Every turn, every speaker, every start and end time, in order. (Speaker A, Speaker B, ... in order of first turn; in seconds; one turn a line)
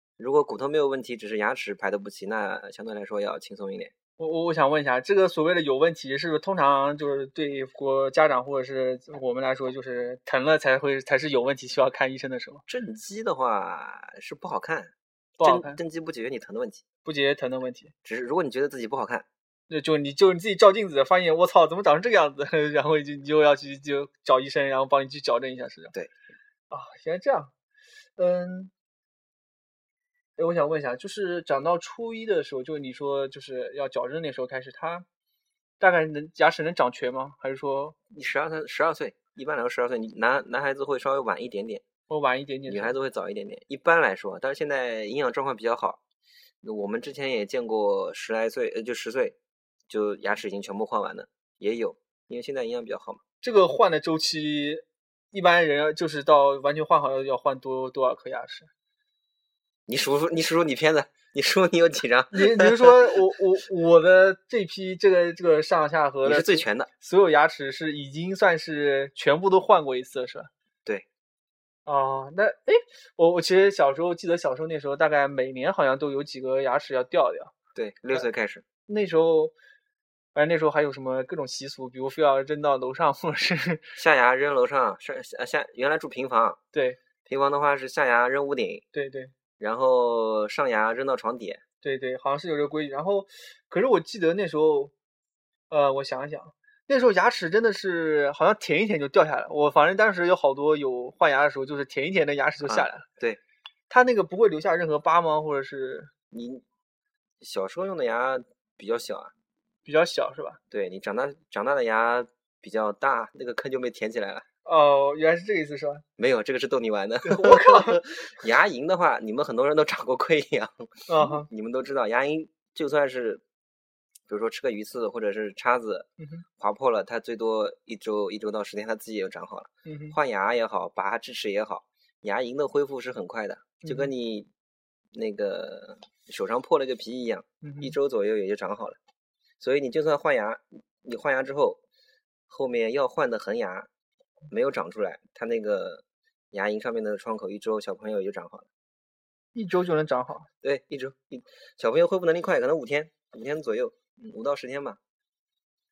Speaker A: 0.2-3.9
Speaker B: 4.2-12.6
Speaker A: 12.7-16.8
Speaker B: 15.4-15.8
Speaker B: 17.0-17.9
Speaker A: 18.0-19.2
Speaker B: 19.7-25.9
Speaker B: 26.7-27.5
Speaker B: 28.2-28.7
Speaker B: 30.4-35.0
Speaker B: 35.8-38.0
Speaker A: 38.1-41.8
Speaker B: 42.1-42.9
Speaker A: 42.7-46.0
Speaker A: 46.6-49.4
Speaker A: 49.9-53.2
Speaker B: 53.4-58.7
Speaker A: 59.9-63.2
Speaker B: 62.3-70.5
Speaker A: 66.2-66.9
Speaker B: 71.8-77.5
Speaker A: 77.7-78.6
Speaker B: 78.9-79.5
Speaker B: 80.3-83.9
Speaker A: 84.0-86.6
Speaker B: 86.7-87.0
Speaker A: 87.3-88.8
Speaker B: 88.9-89.3
Speaker A: 89.6-91.6
Speaker B: 91.8-94.9
Speaker B: 95.7-103.0
Speaker A: 102.6-103.4
Speaker B: 103.9-106.1
Speaker A: 106.3-106.6
Speaker A: 107.4-109.3
Speaker B: 109.8-110.6
Speaker A: 110.7-114.4
Speaker B: 114.6-116.0
Speaker A: 116.2-123.4
Speaker B: 117.2-118.3
Speaker B: 121.1-121.5
Speaker A: 124.3-126.1
Speaker B: 126.2-126.4
Speaker A: 126.6-134.5
Speaker B: 129.8-130.2
Speaker B: 133.8-134.1
Speaker A: 135.1-139.0
Speaker B: 137.6-137.9
Speaker A: 139.6-141.8
Speaker A: 142.5-143.9
Speaker A: 144.5-148.7
Speaker B: 149.5-150.5
Speaker A: 150.6-155.0